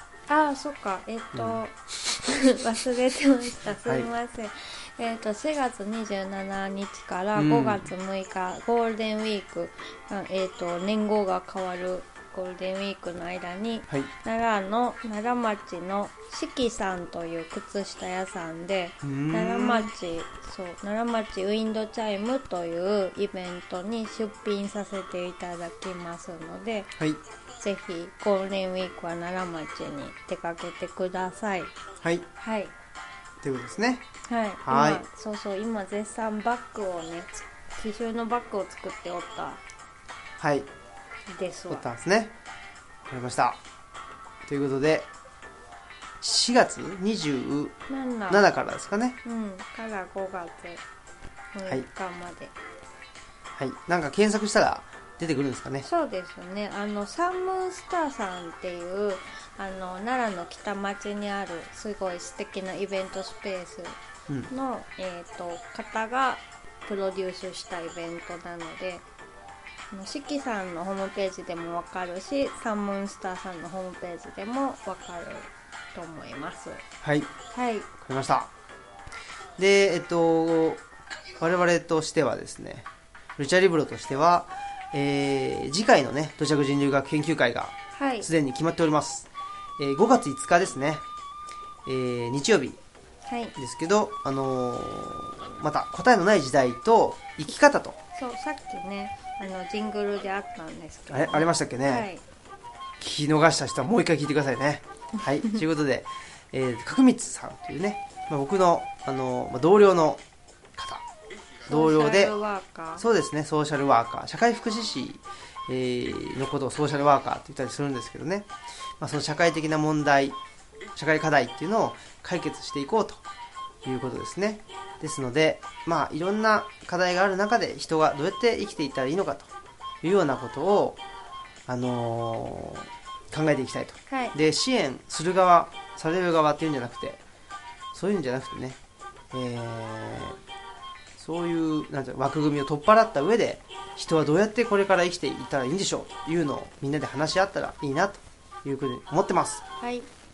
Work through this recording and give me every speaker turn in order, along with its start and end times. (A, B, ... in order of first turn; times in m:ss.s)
0:00.3-0:26.9 A
0:01.3-0:01.6 B
0:07.3-0:07.9 B
0:19.0-0:19.9 B
0:27.6-0:31.7 A
0:32.0-0:32.3 B
0:32.4-0:32.7 A
0:33.4-0:34.0 B
0:34.2-0:39.6 A
0:34.6-0:35.0 B
0:40.4-0:40.7 B
0:41.3-0:41.9 A
0:41.7-0:42.3 B
0:43.0-0:43.6 B
0:44.4-0:45.1 B
0:46.2-0:47.8 B
0:47.9-0:48.5 A
0:48.3-0:49.2 B
0:49.2-0:50.8 A
0:51.5-0:52.5 A
0:53.6-0:55.9 B
0:55.8-1:04.0 A
1:04.5-1:09.0 A
1:09.9-1:16.8 A
1:17.0-1:17.3 B
1:17.5-1:17.9 A
1:18.0-1:18.5 B
1:19.6-1:20.8 B
1:21.4-1:29.3 B
1:27.9-1:28.3 A
1:29.8-1:31.0 B
1:31.8-1:32.8 B
1:33.2-1:33.6 A
1:33.6-1:38.0 B
1:38.1-1:42.2 A
1:41.1-1:42.1 B
1:43.0-1:50.2 B
1:50.8-1:51.0 B
1:51.6-1:52.3 B
1:51.6-1:53.0 A
1:53.0-2:00.4 B
2:00.9-2:03.2 B
2:03.8-2:09.5 B
2:10.0-2:11.0 B
2:11.7-2:17.2 B
2:14.1-2:14.4 A
2:17.9-2:18.8 B
2:19.3-2:20.4 B
2:21.2-2:29.6 B
2:29.8-2:30.1 A